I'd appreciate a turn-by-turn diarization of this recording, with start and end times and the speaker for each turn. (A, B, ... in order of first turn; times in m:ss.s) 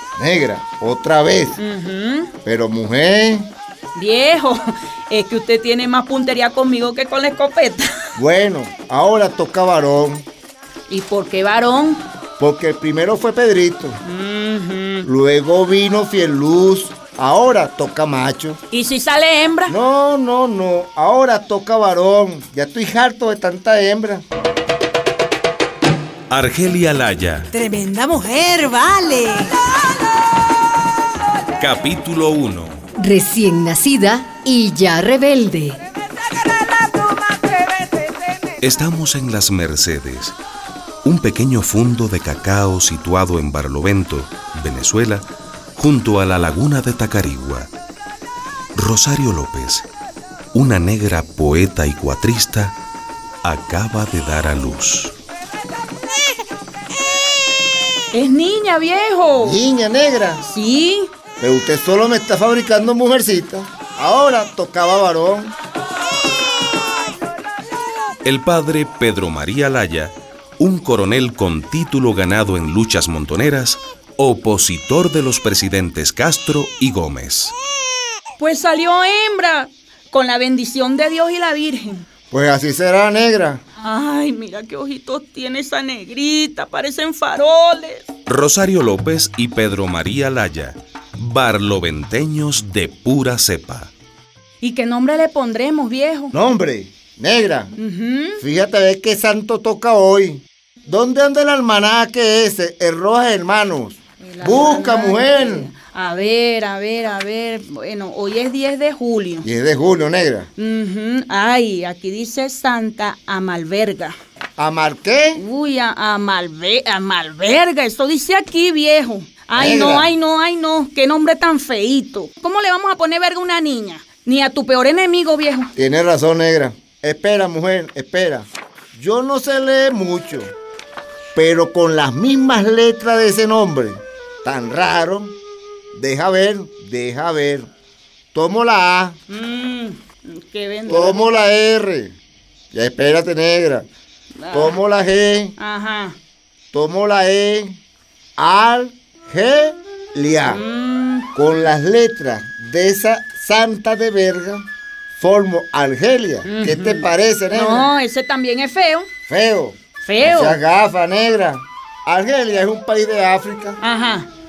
0:00.2-0:01.6 A
0:01.6-0:02.3 B
0:02.4-0:03.5 A
0:04.0-0:07.9 B
0:08.2-0:10.2 A
0:10.9-0:12.0 B
0:12.4-0:14.0 A
0:14.0-0:15.1 B
0:15.0-0:18.6 A
0:18.7-0:19.7 B
0:19.7-0:24.2 A
0:26.3-0:27.5 C
0:27.5-0:29.5 D
0:31.6-0:32.8 C
0:33.0-0:35.8 E
0:38.6-0:40.3 C
0:41.0-0:45.2 C
0:45.8-0:47.7 C
0:48.8-0:49.8 C
0:50.5-0:52.8 C
0:53.4-0:55.1 C
0:58.1-0:59.6 B
0:59.4-1:00.4 A
1:00.4-1:01.1 B
1:01.4-1:05.5 A
1:08.2-1:17.5 C
1:18.4-1:22.0 B
1:22.3-1:23.6 A
1:23.8-1:28.0 B
1:28.3-1:33.9 C
1:34.6-1:36.3 B
1:36.3-1:37.7 A
1:37.8-1:38.4 B
1:38.4-1:45.7 A
1:44.2-1:49.4 B
1:49.4-1:50.5 A
1:50.6-1:54.2 B
1:54.6-1:55.4 A
1:55.4-2:05.7 B
1:59.6-2:00.1 A
2:05.8-2:10.5 A
2:11.4-2:15.4 A
2:15.9-2:17.7 A
2:18.3-2:19.2 A
2:19.3-2:21.2 B
2:20.9-2:22.1 A
2:22.7-2:23.9 A
2:24.4-2:24.8 B
2:24.5-2:25.6 A
2:25.6-2:26.2 B
2:26.7-2:27.8 A
2:28.4-2:30.6 A
2:30.5-2:31.3 B
2:31.3-2:34.7 A
2:35.2-2:37.9 A
2:36.4-2:39.1 B
2:39.3-2:43.8 A
2:40.0-2:40.6 B
2:43.8-2:44.3 B